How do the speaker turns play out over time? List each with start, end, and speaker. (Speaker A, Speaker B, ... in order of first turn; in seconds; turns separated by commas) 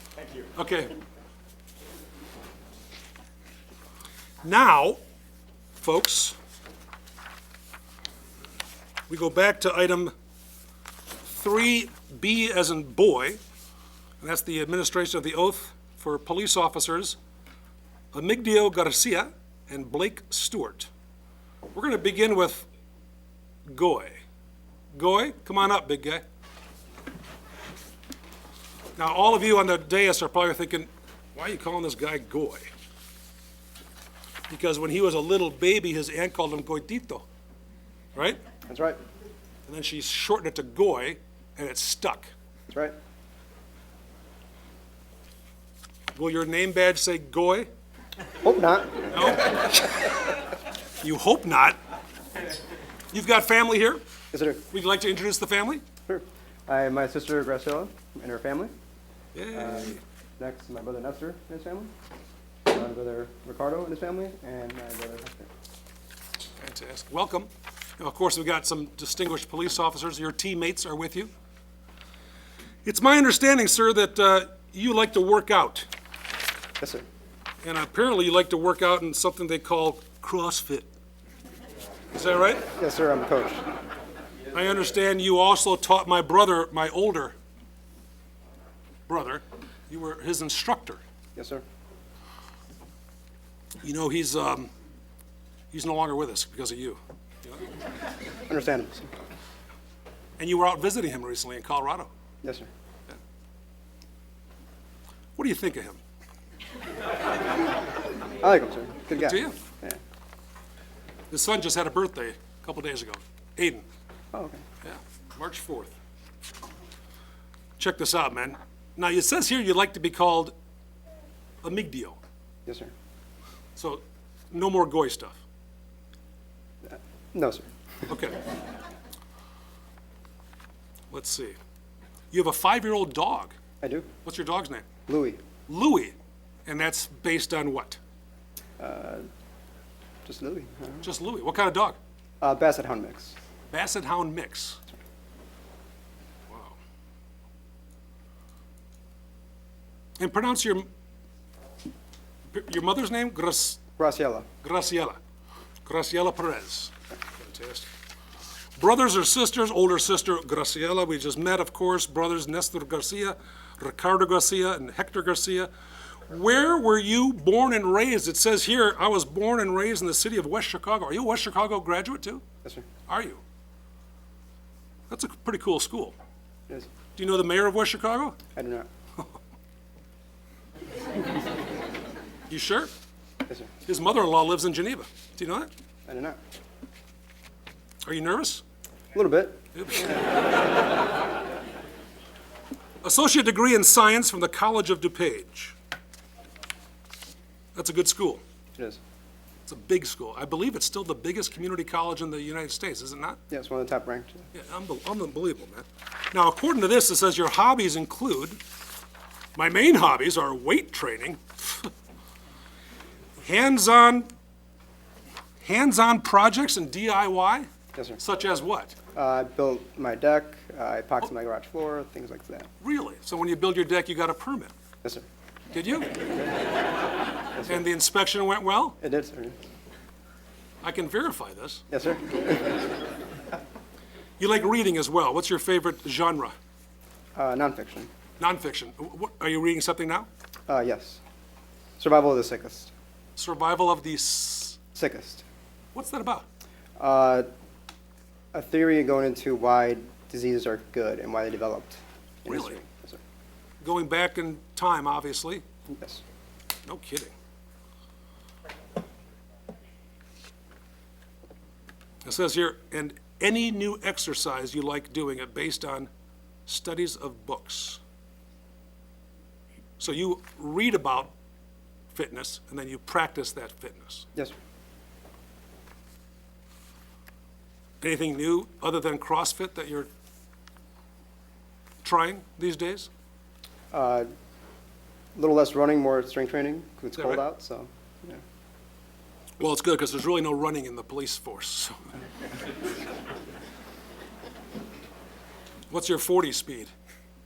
Speaker A: 0.6-0.9, Speaker A: 4.4-5.0, Speaker A: 5.8-6.4, Speaker A: 9.1-10.1, Speaker A: 11.2-13.4, Speaker A: 14.2-17.2, Speaker A: 18.1-20.9, Speaker A: 21.7-22.7, Speaker A: 23.7-24.2, Speaker A: 24.9-26.2, Speaker A: 29.0-32.7, Speaker A: 34.5-37.2, Speaker A: 38.1-38.4, Speaker B: 38.7-39.0, Speaker A: 39.7-42.3, Speaker A: 46.2-47.7, Speaker B: 48.4-49.5, Speaker A: 49.1-50.2, Speaker A: 51.0-51.8, Speaker A: 53.1-54.0, Speaker B: 54.3-54.6, Speaker A: 54.7-55.8, Speaker B: 56.1-58.7, Speaker A: 59.4-60.0, Speaker B: 59.5-61.9, Speaker B: 62.7-65.5, Speaker A: 66.6-71.3, Speaker A: 72.8-75.9, Speaker B: 76.8-77.0, Speaker A: 77.6-80.9, Speaker A: 82.1-82.6, Speaker B: 82.8-83.6, Speaker A: 84.5-87.3, Speaker A: 89.1-91.0, Speaker B: 91.4-91.6, Speaker A: 93.8-94.7, Speaker A: 95.7-97.0, Speaker B: 98.5-99.1, Speaker A: 100.4-102.1, Speaker B: 102.4-102.7, Speaker A: 105.4-106.0, Speaker B: 108.4-110.0, Speaker A: 109.2-109.6, Speaker A: 111.3-113.8, Speaker B: 114.3-114.6, Speaker A: 114.8-115.9, Speaker A: 117.8-120.5, Speaker A: 121.6-122.2, Speaker B: 122.7-122.9, Speaker A: 123.8-125.4, Speaker B: 126.9-127.7, Speaker A: 128.1-128.4, Speaker A: 131.1-131.6, Speaker A: 132.3-133.6, Speaker B: 133.8-134.1, Speaker A: 134.2-134.9, Speaker B: 135.1-135.4, Speaker A: 135.7-136.2, Speaker A: 136.7-138.0, Speaker B: 138.8-139.2, Speaker B: 140.3-141.1, Speaker A: 141.0-142.0, Speaker B: 142.4-143.4, Speaker A: 143.7-144.8, Speaker A: 146.5-146.8, Speaker A: 150.2-150.9, Speaker A: 152.5-153.8, Speaker B: 154.0-154.5, Speaker A: 154.6-155.2, Speaker A: 155.8-157.9, Speaker A: 158.8-165.7, Speaker A: 166.3-172.4, Speaker A: 173.1-173.4, Speaker A: 175.1-176.2, Speaker A: 177.2-178.4, Speaker B: 178.6-178.9, Speaker A: 182.5-182.9, Speaker A: 183.9-185.7, Speaker B: 186.1-186.4, Speaker A: 188.1-188.6, Speaker B: 189.1-190.2, Speaker A: 189.7-190.4, Speaker A: 193.0-195.8, Speaker A: 197.8-198.4, Speaker A: 199.7-203.4, Speaker B: 203.5-204.5, Speaker A: 204.5-208.6, Speaker A: 209.6-211.9, Speaker A: 213.4-214.3, Speaker A: 215.6-217.7, Speaker B: 217.9-218.2, Speaker A: 218.2-219.0, Speaker B: 219.2-222.7, Speaker A: 222.8-224.7, Speaker A: 225.7-226.2, Speaker B: 227.6-227.8, Speaker A: 227.7-229.0, Speaker B: 229.0-229.6, Speaker A: 230.8-231.8, Speaker B: 231.9-232.8, Speaker A: 234.4-236.5, Speaker B: 237.4-238.1, Speaker A: 238.4-240.3, Speaker B: 240.7-241.2, Speaker B: 242.0-242.9, Speaker A: 243.4-244.8, Speaker B: 244.9-245.4, Speaker A: 245.9-246.5, Speaker B: 247.0-247.5, Speaker B: 248.5-253.2, Speaker A: 252.5-252.8, Speaker A: 253.8-255.6, Speaker B: 255.9-256.2, Speaker A: 256.9-257.3, Speaker A: 262.2-266.1, Speaker A: 266.7-268.0, Speaker A: 270.0-271.3, Speaker A: 272.1-274.3, Speaker A: 278.0-280.1, Speaker A: 282.0-283.1, Speaker B: 283.9-284.3, Speaker B: 285.4-288.4, Speaker A: 287.2-287.4, Speaker A: 289.6-292.1, Speaker A: 295.9-296.9